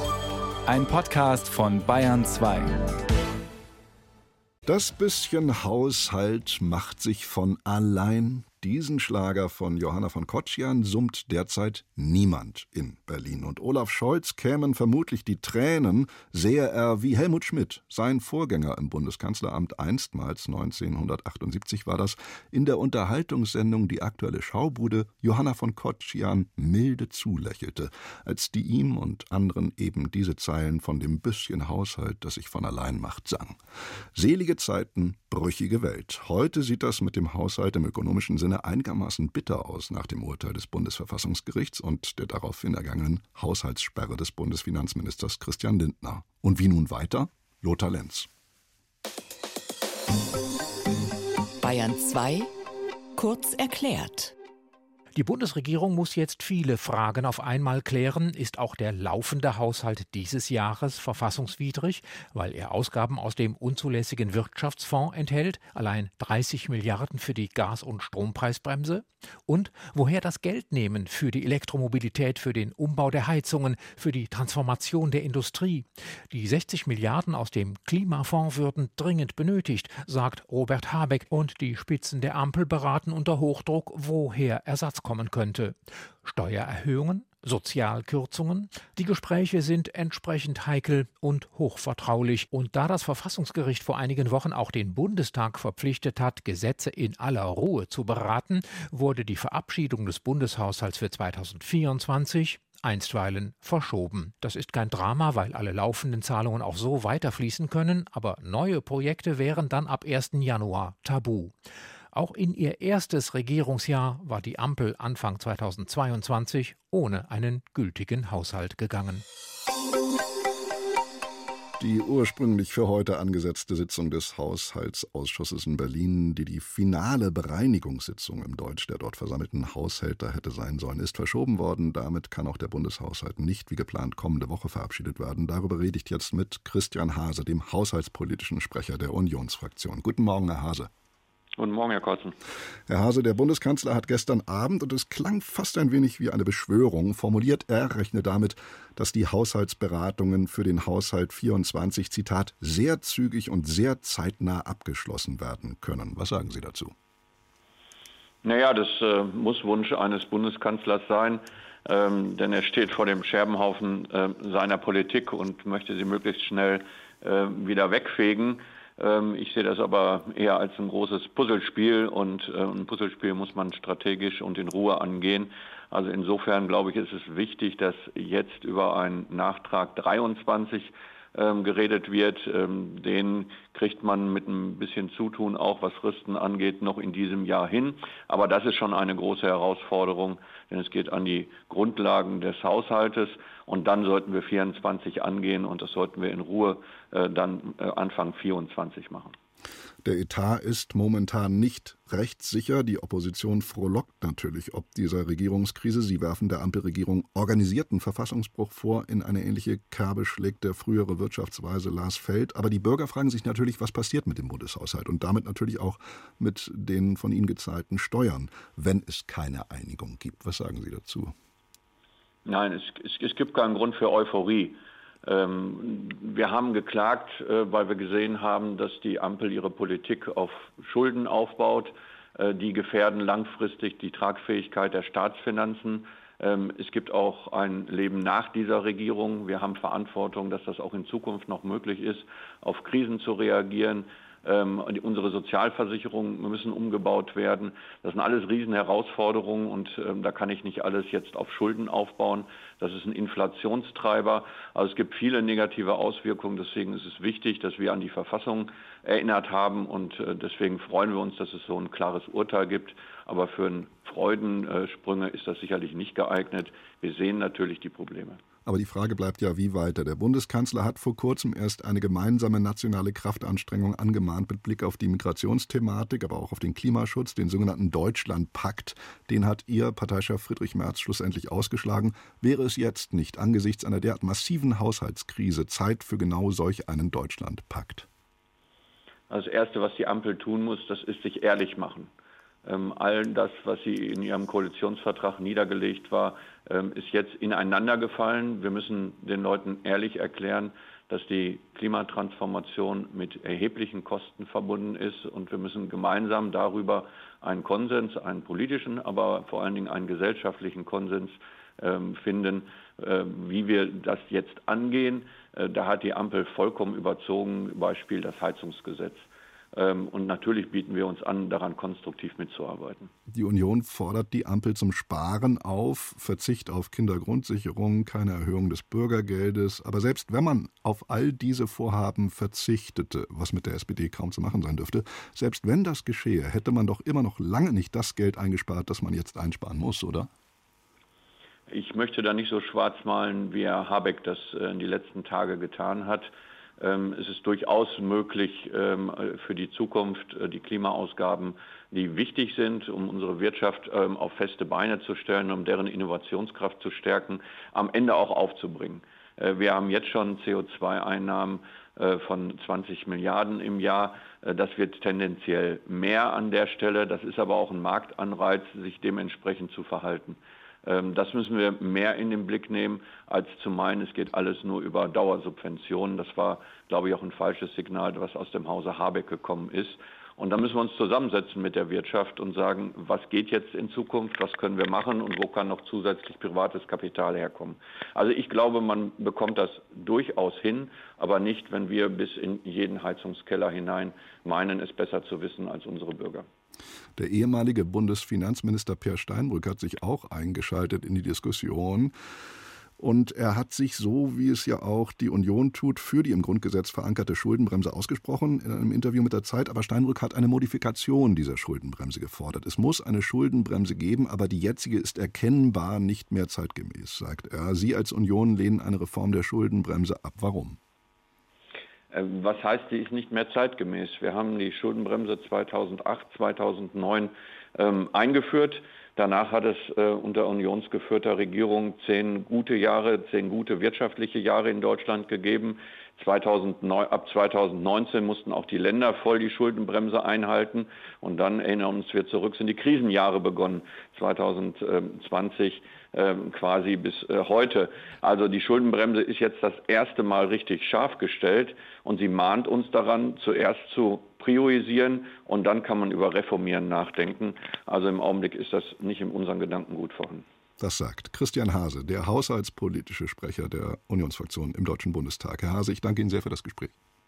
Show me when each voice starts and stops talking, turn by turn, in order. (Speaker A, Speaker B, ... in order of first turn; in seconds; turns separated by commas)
Speaker A: 0.7-2.7, Speaker B: 4.7-33.6, Speaker B: 34.1-48.3, Speaker C: 51.6-52.5, Speaker C: 53.1-54.3, Speaker D: 55.1-111.5, Speaker D: 112.1-119.2, Speaker B: 121.8-140.9, Speaker E: 141.6-142.3, Speaker B: 142.9-156.9, Speaker E: 158.4-199.3, Speaker B: 200.0-221.3, Speaker E: 222.4-268.4, Speaker B: 268.6-288.1, Speaker E: 289.3-292.1, Speaker E: 292.6-323.1, Speaker B: 323.3-340.3, Speaker E: 341.7-396.5, Speaker B: 397.2-402.1, Speaker B: 403.0-420.8, Speaker E: 422.1-460.4, Speaker B: 460.8-466.9